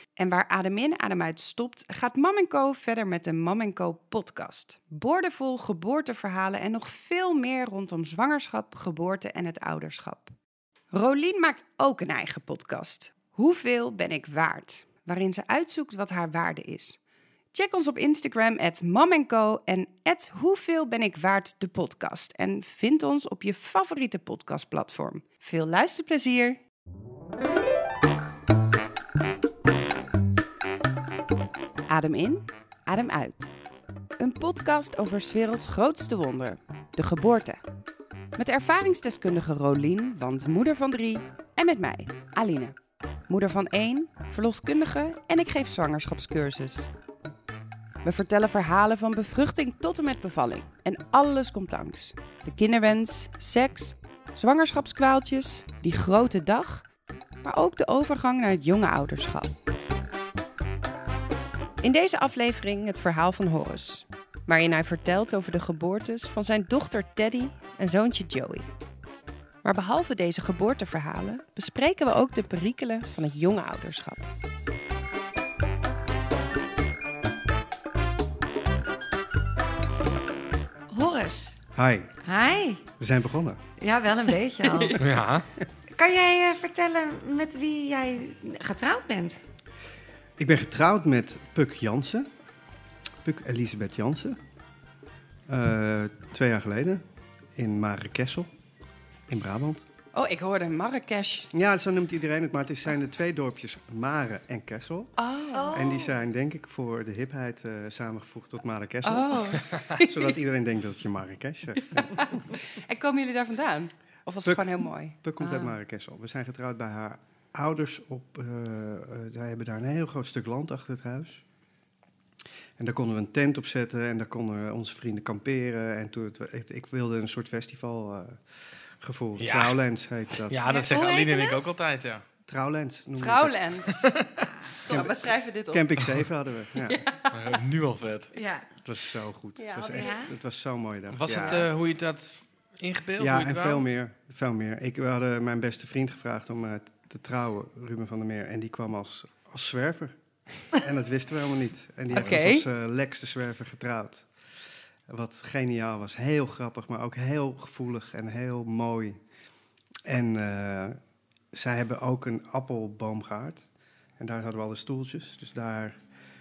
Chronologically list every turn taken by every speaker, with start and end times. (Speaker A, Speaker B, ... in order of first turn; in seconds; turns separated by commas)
Speaker A: 0.2-10.3, Speaker A: 10.9-17.0, Speaker A: 17.5-26.6, Speaker A: 31.9-33.5, Speaker A: 34.2-37.6, Speaker A: 38.4-42.8, Speaker A: 43.3-46.9, Speaker A: 48.0-56.8, Speaker A: 57.4-59.5, Speaker A: 61.8-68.7, Speaker A: 69.6-74.2, Speaker B: 80.9-81.6, Speaker C: 81.7-82.1, Speaker B: 82.2-82.8, Speaker C: 83.0-83.6, Speaker B: 83.8-85.0, Speaker A: 84.6-85.0, Speaker D: 85.0-85.5, Speaker B: 85.9-89.4, Speaker C: 90.4-92.3, Speaker C: 93.2-94.4, Speaker C: 95.5-97.0, Speaker C: 97.6-98.5, Speaker C: 99.3-99.8, Speaker A: 100.1-101.5, Speaker C: 101.5-105.1, Speaker A: 105.2-105.8, Speaker B: 105.5-106.2, Speaker C: 105.7-112.5, Speaker A: 109.0-110.3, Speaker A: 112.0-115.8, Speaker C: 114.5-121.4, Speaker C: 122.8-128.4, Speaker C: 129.0-130.6, Speaker D: 129.4-129.8, Speaker D: 130.4-132.2, Speaker B: 130.7-131.7, Speaker C: 132.5-133.9, Speaker A: 133.2-134.1, Speaker D: 134.0-134.4, Speaker B: 134.4-134.8, Speaker A: 134.8-135.9, Speaker C: 134.9-137.0, Speaker D: 137.3-138.3, Speaker B: 138.3-138.7, Speaker C: 138.8-141.7, Speaker A: 139.6-140.2, Speaker B: 139.9-140.3, Speaker D: 141.1-143.8, Speaker B: 141.4-141.6, Speaker C: 143.2-150.2, Speaker C: 150.7-154.3, Speaker A: 152.1-152.7, Speaker C: 155.1-159.2, Speaker C: 160.1-161.0, Speaker C: 161.5-163.7, Speaker C: 164.2-166.0